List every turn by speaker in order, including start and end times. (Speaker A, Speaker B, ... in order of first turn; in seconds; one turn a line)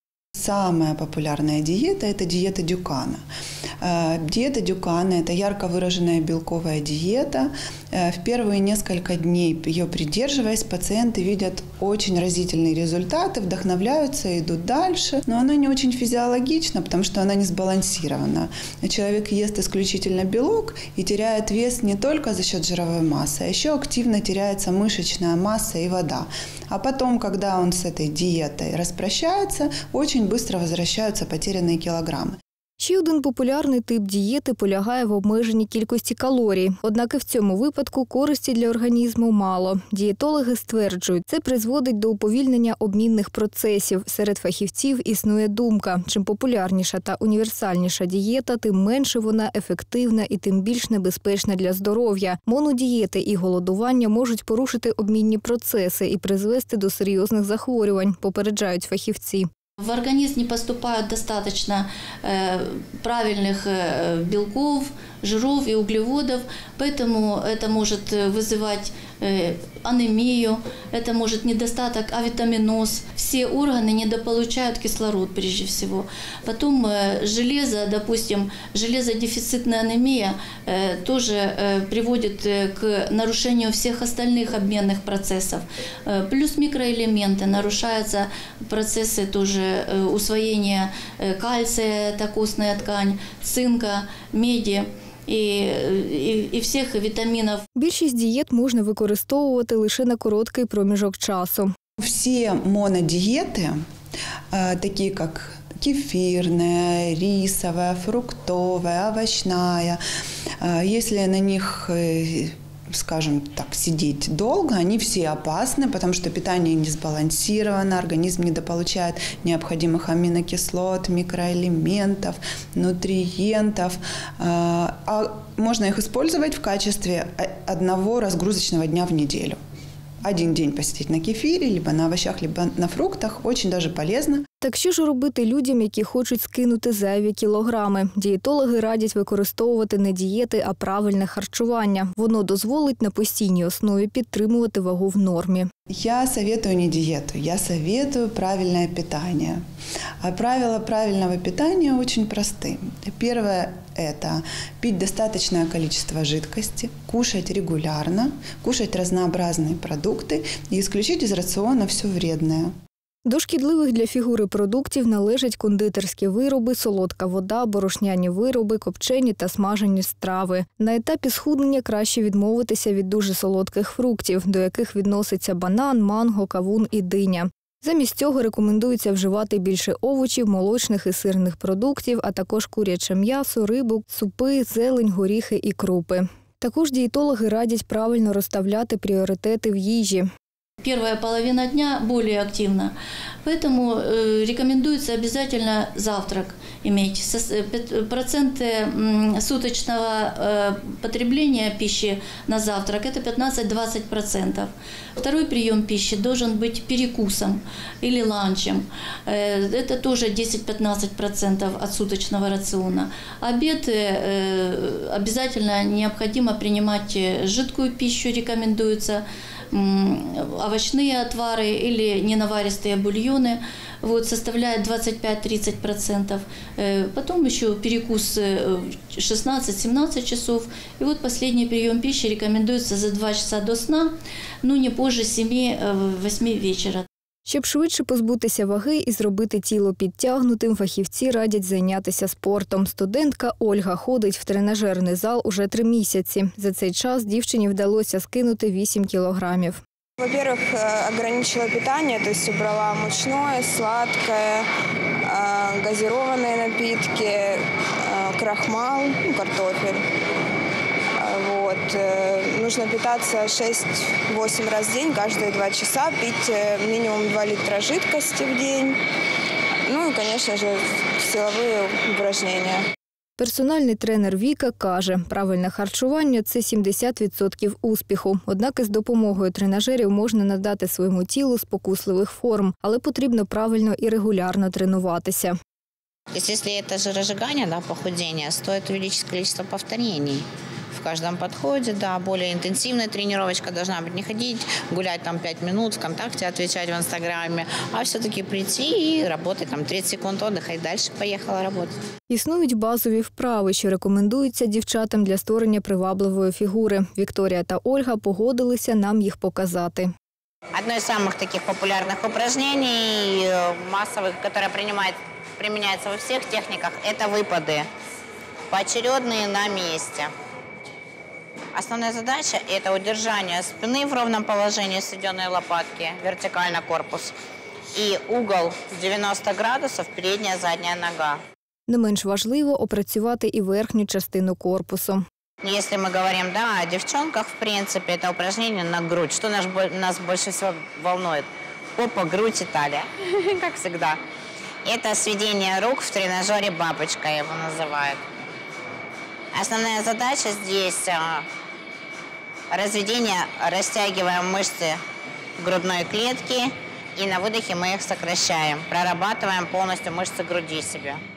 Speaker A: 0.4-3.2
Speaker A: 3.8-32.4
Speaker B: 32.8-59.5
Speaker C: 59.8-97.6
Speaker B: 97.8-101.7
Speaker A: 102.0-103.8
Speaker A: 104.5-110.0
Speaker A: 110.6-129.6
Speaker A: 130.2-134.4
Speaker B: 134.6-145.7
Speaker A: 146.0-149.6
Speaker A: 150.2-162.7
Speaker B: 163.3-190.3
Speaker C: 190.8-237.1
Speaker B: 237.5-249.8
Speaker D: 250.2-254.7
Speaker D: 255.2-260.0
Speaker D: 261.2-269.0
Speaker D: 269.9-272.8
Speaker B: 273.4-285.6
Speaker E: 286.3-302.0
Speaker B: 302.3-310.1
Speaker E: 310.7-317.9
Speaker E: 318.7-320.3
Speaker E: 321.7-327.4
Speaker E: 327.9-331.4
Speaker B: 331.9-335.2
Speaker E: 335.6-344.2
Speaker E: 344.9-348.2
Speaker E: 349.5-351.4
Speaker E: 352.7-355.0
Speaker E: 355.6-361.2